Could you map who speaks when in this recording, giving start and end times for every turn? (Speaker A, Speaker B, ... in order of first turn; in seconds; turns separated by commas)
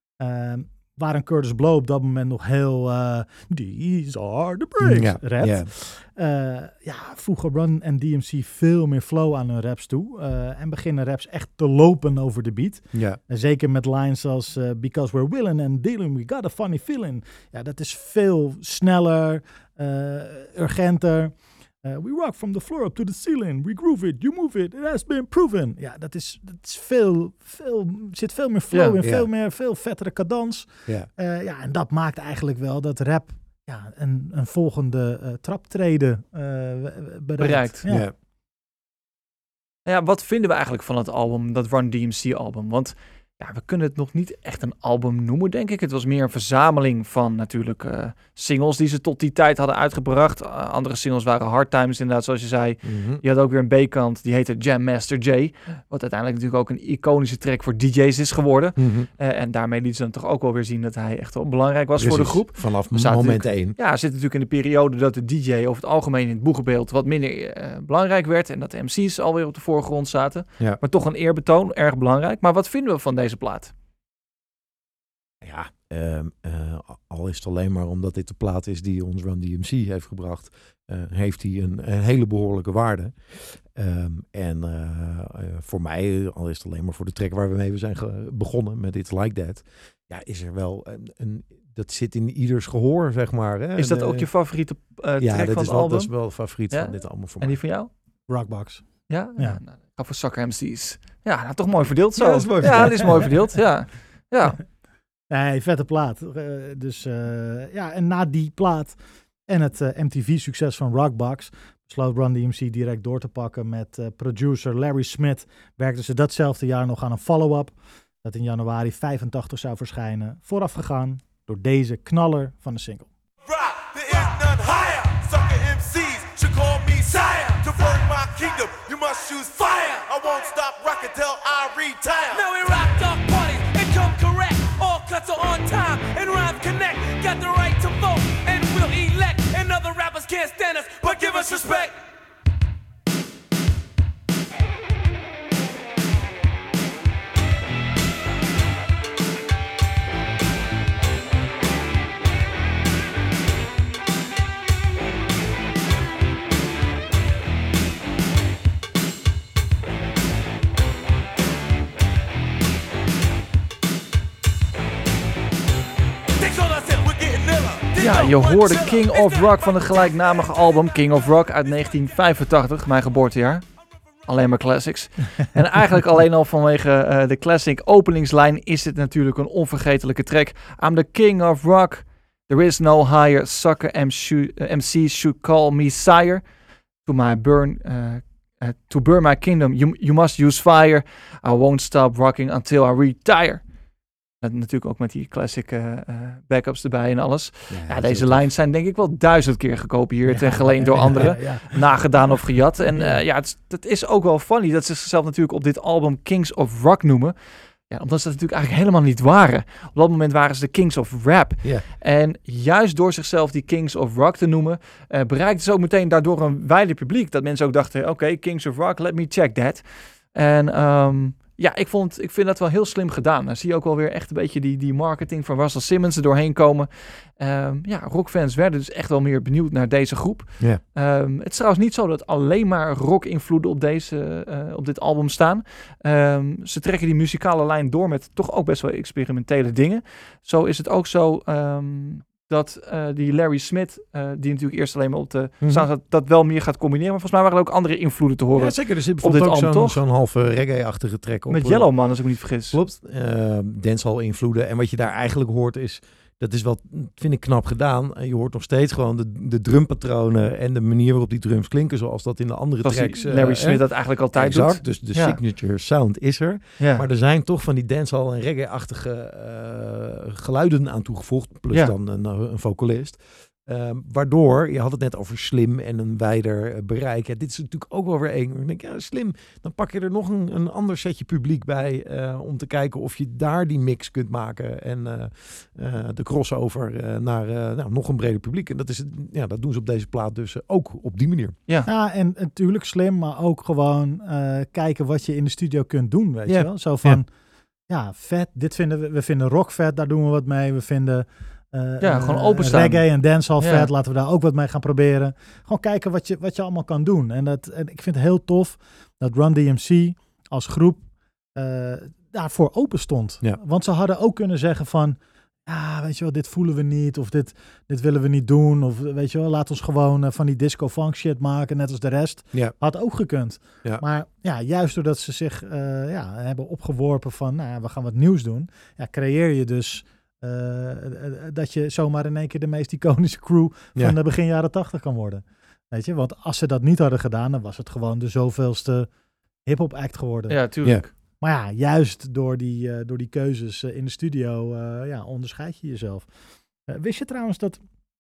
Speaker A: 0.2-38.1, Speaker B: 4.8-5.7, Speaker B: 12.9-13.2, Speaker C: 28.7-29.0, Speaker B: 29.0-29.3, Speaker C: 37.4-37.8, Speaker B: 37.9-38.1, Speaker C: 39.9-73.7, Speaker B: 52.8-53.2, Speaker B: 58.8-59.1, Speaker B: 62.0-63.8, Speaker B: 75.4-94.3, Speaker C: 93.8-97.9, Speaker B: 95.2-97.6, Speaker A: 98.3-99.6, Speaker C: 99.1-104.6, Speaker B: 102.2-103.5, Speaker A: 105.3-123.1, Speaker D: 123.5-132.5, Speaker E: 132.3-142.0, Speaker D: 141.2-141.6, Speaker E: 166.4-167.1, Speaker D: 167.0-168.8, Speaker E: 167.9-170.4, Speaker C: 168.0-173.7, Speaker C: 174.2-186.5, Speaker C: 187.0-193.7, Speaker C: 194.4-250.0, Speaker B: 197.7-198.5, Speaker A: 200.3-201.9, Speaker B: 245.6-245.9, Speaker B: 248.6-291.6, Speaker C: 251.5-252.8, Speaker C: 262.8-265.4, Speaker C: 266.8-267.1, Speaker A: 291.9-297.3, Speaker B: 296.5-297.2, Speaker A: 297.9-339.1, Speaker C: 302.0-303.1, Speaker C: 303.6-303.9, Speaker A: 339.6-340.6, Speaker C: 340.5-341.1, Speaker A: 341.4-346.3, Speaker A: 346.9-347.8